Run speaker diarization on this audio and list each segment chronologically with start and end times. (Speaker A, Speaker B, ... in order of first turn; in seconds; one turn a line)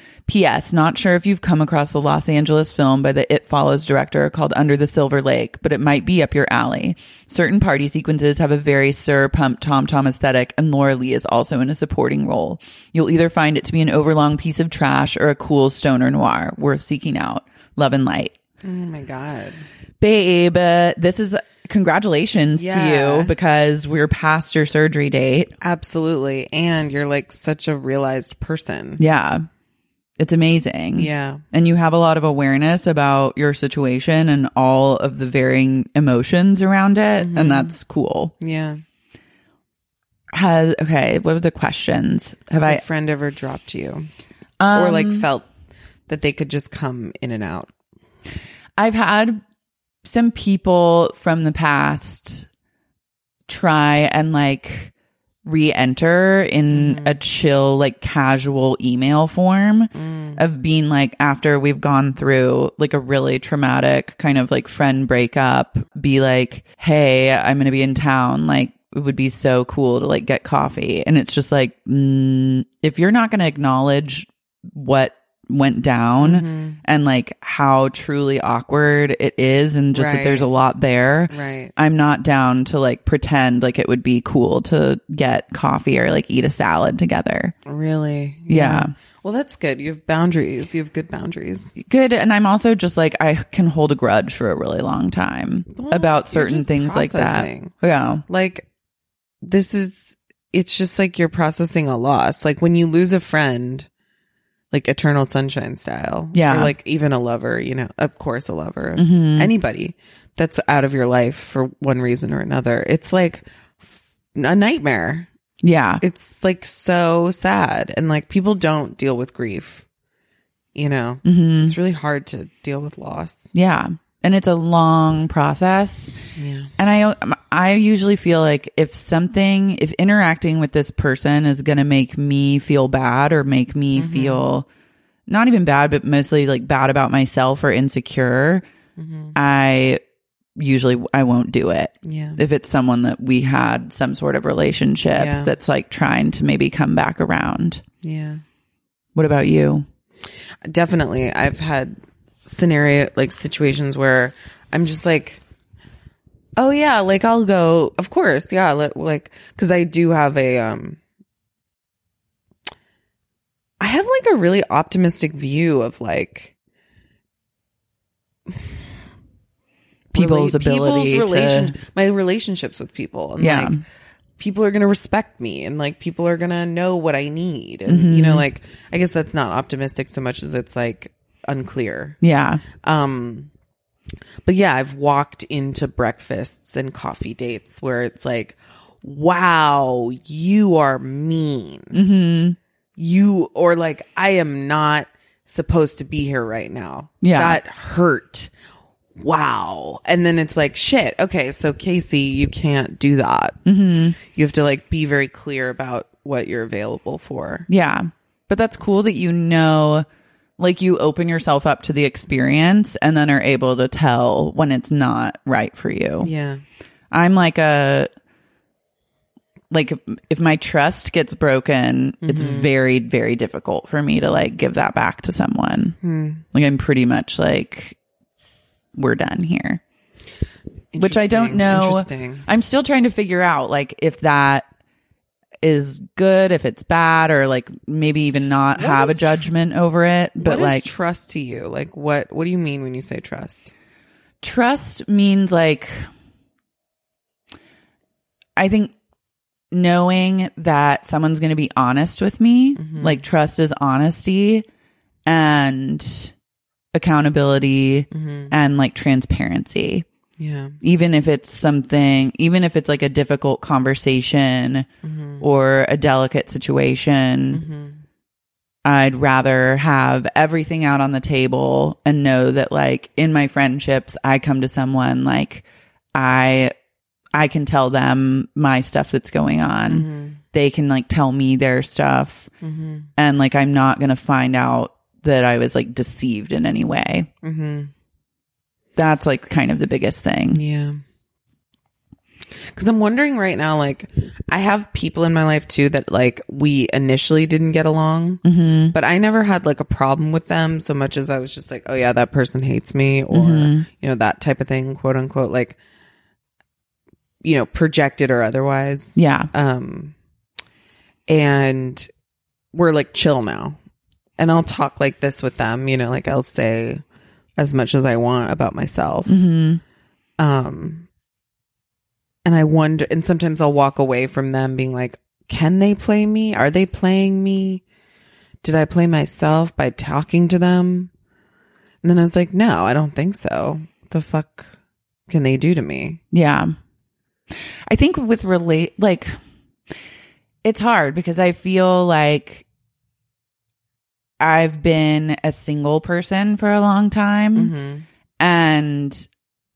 Speaker A: 0.3-18.3
Speaker B: 18.6-19.6
Speaker A: 20.0-25.5
Speaker B: 22.6-23.3
Speaker B: 25.6-29.0
Speaker A: 29.0-29.5
Speaker A: 30.2-38.3
Speaker B: 31.0-31.4
Speaker B: 37.2-37.7
Speaker B: 38.4-38.8
Speaker A: 40.3-42.8
Speaker B: 42.6-44.1
Speaker A: 44.6-45.3
Speaker B: 44.7-45.5
Speaker B: 46.1-47.7
Speaker A: 48.8-49.4
Speaker A: 50.0-52.5
Speaker A: 53.5-54.9
Speaker A: 55.4-87.5
Speaker B: 56.7-57.2
Speaker B: 59.9-60.4
Speaker B: 76.2-76.8
Speaker B: 79.9-80.5
Speaker B: 81.3-81.7
Speaker B: 87.7-91.7
Speaker A: 88.5-88.9
Speaker A: 91.8-98.2
Speaker B: 95.7-97.7
Speaker B: 98.3-98.7
Speaker B: 99.4-103.9
Speaker B: 104.7-115.3
Speaker A: 106.3-106.7
Speaker A: 109.0-109.5
Speaker A: 115.6-116.0
Speaker B: 116.0-119.8
Speaker B: 120.7-123.5
Speaker A: 121.2-121.8
Speaker A: 123.5-126.1
Speaker B: 126.3-126.7
Speaker A: 126.8-134.7
Speaker B: 133.9-134.4
Speaker A: 135.3-138.6
Speaker B: 139.0-139.3
Speaker A: 139.3-140.0
Speaker A: 140.6-147.8
Speaker B: 142.0-142.4
Speaker B: 145.1-145.5
Speaker B: 148.0-148.4
Speaker A: 149.1-149.8
Speaker B: 150.7-155.4
Speaker B: 156.6-161.0
Speaker B: 163.8-166.5
Speaker A: 170.1-171.7
Speaker B: 170.1-173.8
Speaker A: 173.4-173.8
Speaker B: 174.4-182.2
Speaker A: 177.9-178.4
Speaker A: 182.2-182.6
Speaker B: 182.8-183.5
Speaker B: 184.4-192.0
Speaker A: 191.9-192.6
Speaker B: 193.0-198.5
Speaker A: 197.2-197.6
Speaker B: 199.2-203.6
Speaker A: 203.6-204.2
Speaker B: 204.2-207.7
Speaker A: 207.7-210.1
Speaker A: 210.6-216.3
Speaker B: 216.2-216.6
Speaker A: 217.1-218.1
Speaker A: 219.7-225.9
Speaker B: 222.2-222.7
Speaker B: 226.0-226.4
Speaker A: 226.5-227.9
Speaker A: 228.9-229.8
Speaker B: 230.9-232.4
Speaker A: 231.0-234.7
Speaker A: 235.6-240.9
Speaker B: 238.8-239.5
Speaker B: 240.4-243.7
Speaker A: 244.4-246.1
Speaker A: 248.6-248.9
Speaker A: 249.7-254.6
Speaker B: 252.8-253.2
Speaker A: 255.2-256.3
Speaker A: 256.9-260.0
Speaker B: 258.1-258.5
Speaker B: 260.4-260.8
Speaker A: 260.8-264.9
Speaker B: 265.0-265.4
Speaker A: 265.4-267.6
Speaker B: 267.5-268.0
Speaker A: 268.8-275.6
Speaker A: 276.1-276.7
Speaker A: 277.3-282.5
Speaker B: 279.9-280.4
Speaker B: 282.6-283.1
Speaker A: 283.2-287.3
Speaker B: 287.4-287.9
Speaker A: 289.0-290.6
Speaker B: 290.5-291.0
Speaker B: 292.7-305.8
Speaker A: 298.4-298.9
Speaker A: 303.3-303.9
Speaker B: 307.4-310.1
Speaker A: 309.1-309.5
Speaker B: 311.3-312.1
Speaker B: 312.7-313.8
Speaker B: 314.4-317.0
Speaker B: 317.6-319.3
Speaker A: 319.3-319.8
Speaker B: 320.4-321.1
Speaker B: 322.4-327.8
Speaker B: 328.6-331.1
Speaker B: 332.0-334.7
Speaker B: 335.3-336.2
Speaker A: 336.3-336.8
Speaker A: 337.9-339.4
Speaker A: 340.6-342.6
Speaker A: 344.4-347.7
Speaker B: 347.5-348.0
Speaker A: 348.4-349.3